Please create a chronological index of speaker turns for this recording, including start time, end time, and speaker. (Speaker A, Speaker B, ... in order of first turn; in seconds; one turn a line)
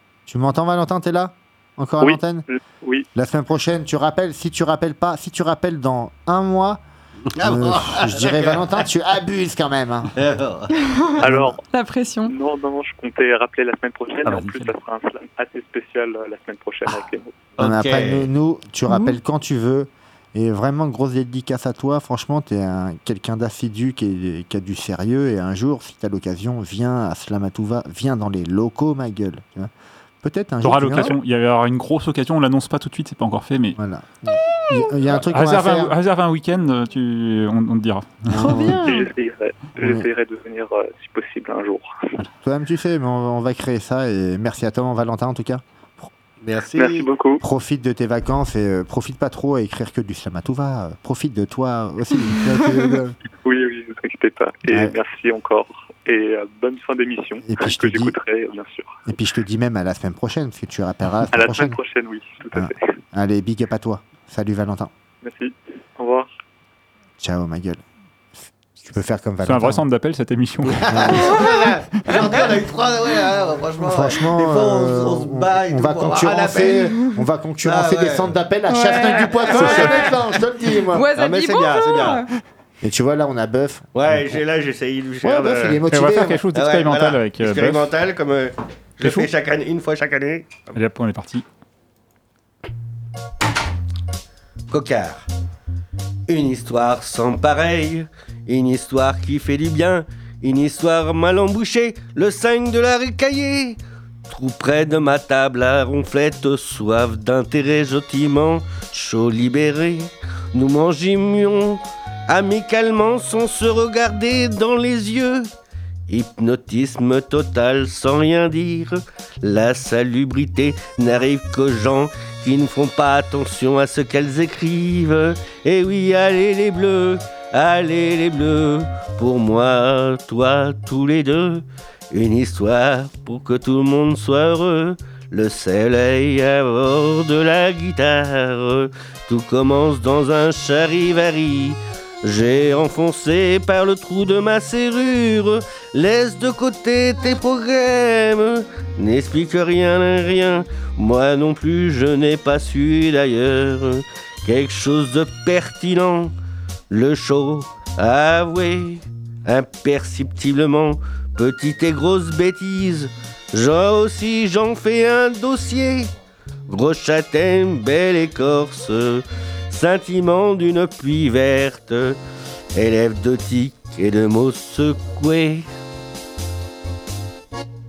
Speaker A: 0.3-2.5
Speaker B: 2.0-3.1
Speaker A: 3.1-6.8
Speaker C: 7.4-8.7
Speaker A: 7.4-10.1
Speaker C: 10.2-10.7
Speaker D: 10.9-11.2
Speaker A: 11.2-11.6
Speaker B: 11.2-11.6
Speaker D: 11.7-12.3
Speaker B: 12.3-17.3
Speaker E: 14.2-14.7
Speaker C: 17.6-18.3
Speaker A: 17.6-31.2
Speaker D: 18.9-19.2
Speaker E: 30.6-33.8
Speaker A: 33.8-36.0
Speaker E: 35.1-38.6
Speaker A: 38.3-39.0
Speaker D: 38.3-39.1
Speaker B: 38.9-41.9
Speaker A: 39.8-40.1
Speaker A: 42.4-46.1
Speaker C: 46.4-47.1
Speaker B: 46.8-47.4
Speaker A: 47.4-53.1
Speaker D: 52.3-52.9
Speaker B: 53.4-59.0
Speaker A: 54.7-55.0
Speaker A: 57.5-58.2
Speaker A: 59.1-61.8
Speaker B: 61.3-62.9
Speaker A: 62.5-64.9
Speaker B: 65.2-66.3
Speaker A: 67.2-67.8
Speaker A: 68.8-69.8
Speaker E: 69.4-71.2
Speaker A: 70.9-72.5
Speaker C: 70.9-76.9
Speaker A: 73.8-81.1
Speaker C: 77.6-78.3
Speaker D: 78.7-79.8
Speaker E: 79.5-79.9
Speaker D: 80.9-82.3
Speaker C: 81.2-82.2
Speaker A: 82.8-84.4
Speaker C: 83.9-85.8
Speaker A: 85.2-86.4
Speaker E: 85.9-87.9
Speaker C: 86.5-90.7
Speaker E: 89.0-89.3
Speaker E: 90.7-91.5
Speaker C: 94.7-95.3
Speaker C: 96.3-115.5
Speaker C: 116.1-156.3
Speaker C: 156.9-166.1
Speaker C: 166.7-172.2
Speaker C: 172.8-175.7